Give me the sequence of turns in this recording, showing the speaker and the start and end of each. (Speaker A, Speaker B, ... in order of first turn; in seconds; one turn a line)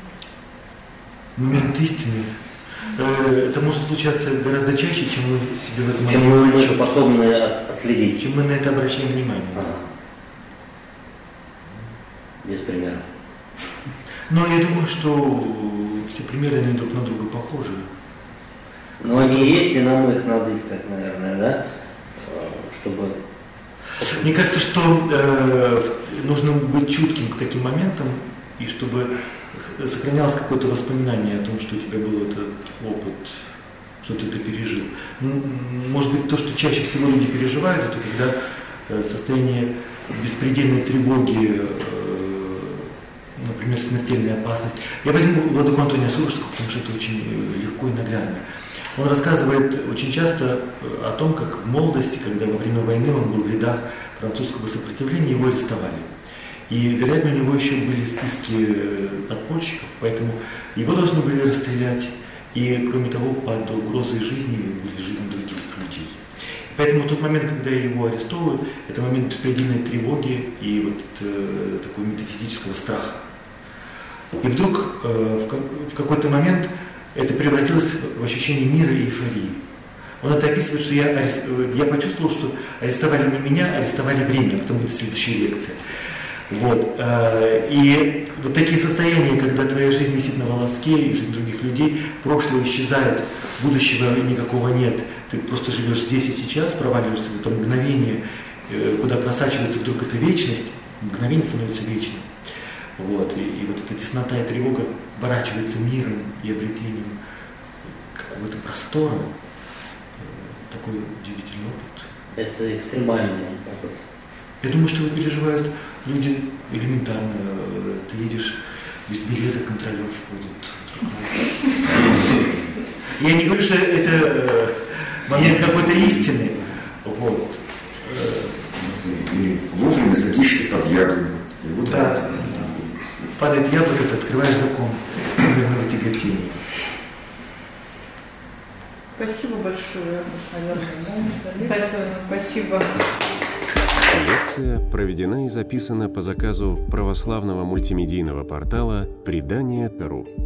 Speaker A: 1.4-2.3
Speaker A: 2.8-7.0
Speaker B: 6.0-8.2
Speaker A: 8.2-9.8
Speaker B: 9.5-9.8
Speaker B: 12.4-13.1
Speaker A: 14.3-17.9
Speaker B: 19.0-21.6
Speaker A: 19.1-19.5
Speaker B: 22.2-23.2
Speaker B: 24.0-24.3
Speaker A: 24.0-33.5
Speaker A: 34.0-38.4
Speaker A: 38.9-48.4
Speaker A: 48.9-56.1
Speaker A: 56.7-73.2
Speaker A: 74.4-79.6
Speaker A: 80.2-85.8
Speaker A: 86.5-102.3
Speaker A: 103.0-107.2
Speaker A: 108.1-109.3
Speaker A: 110.2-112.1
Speaker B: 112.3-114.0
Speaker A: 114.6-122.4
Speaker A: 123.1-128.7
Speaker C: 128.7-133.1
Speaker A: 133.3-136.6
Speaker D: 139.2-143.0
Speaker E: 144.1-150.3